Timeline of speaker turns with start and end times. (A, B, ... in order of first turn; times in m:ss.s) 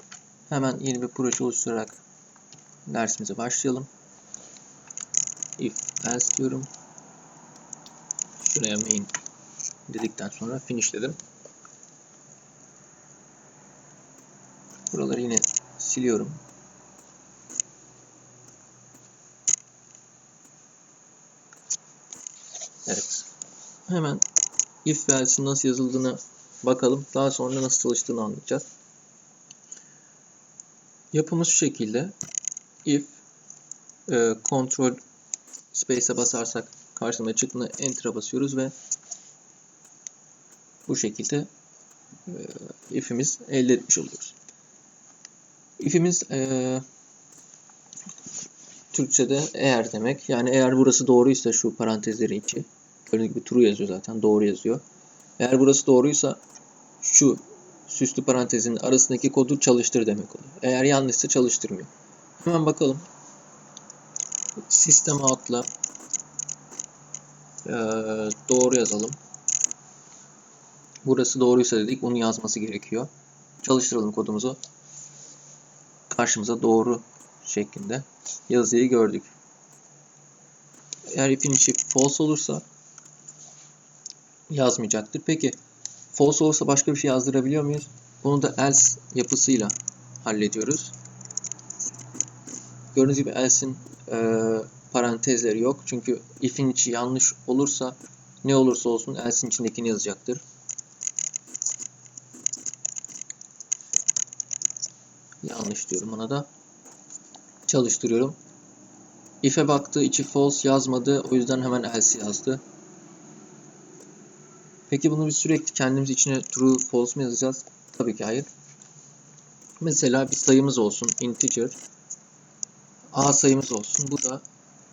0:00.5-0:02.0 A
0:02.9-0:03.9 A
0:05.6-0:06.7 A
0:08.4-0:09.1 A
0:09.9-0:11.2 A
0:14.9-0:16.4 A
0:22.8-0:23.3 A
0:23.9-0:24.2 A
0:24.8-0:28.7 A
0:31.1-0:32.1 A
0:32.8-0:33.2 A
0:34.1-0:35.0 A
0:35.7-0:38.7 A
0:40.9-0:41.5 A
0:42.3-0:44.4 A
0:45.8-0:46.8 A
0:48.9-0:54.8 A
0:55.4-0:56.4 A
0:57.0-1:01.9 A
1:02.4-1:03.0 A
1:04.7-1:05.7 A
1:07.6-1:09.2 A
1:11.0-1:13.1 A
1:13.6-1:14.6 A
1:16.1-1:19.3 A
1:21.1-1:22.6 A
1:24.5-1:25.6 A
1:26.1-1:30.9 A
1:32.9-1:40.4 A
1:45.4-1:46.5 A
1:47.7-1:48.4 A
1:49.4-1:52.6 A
1:54.9-1:58.5 A
1:59.8-2:01.8 A
2:03.1-2:04.4 A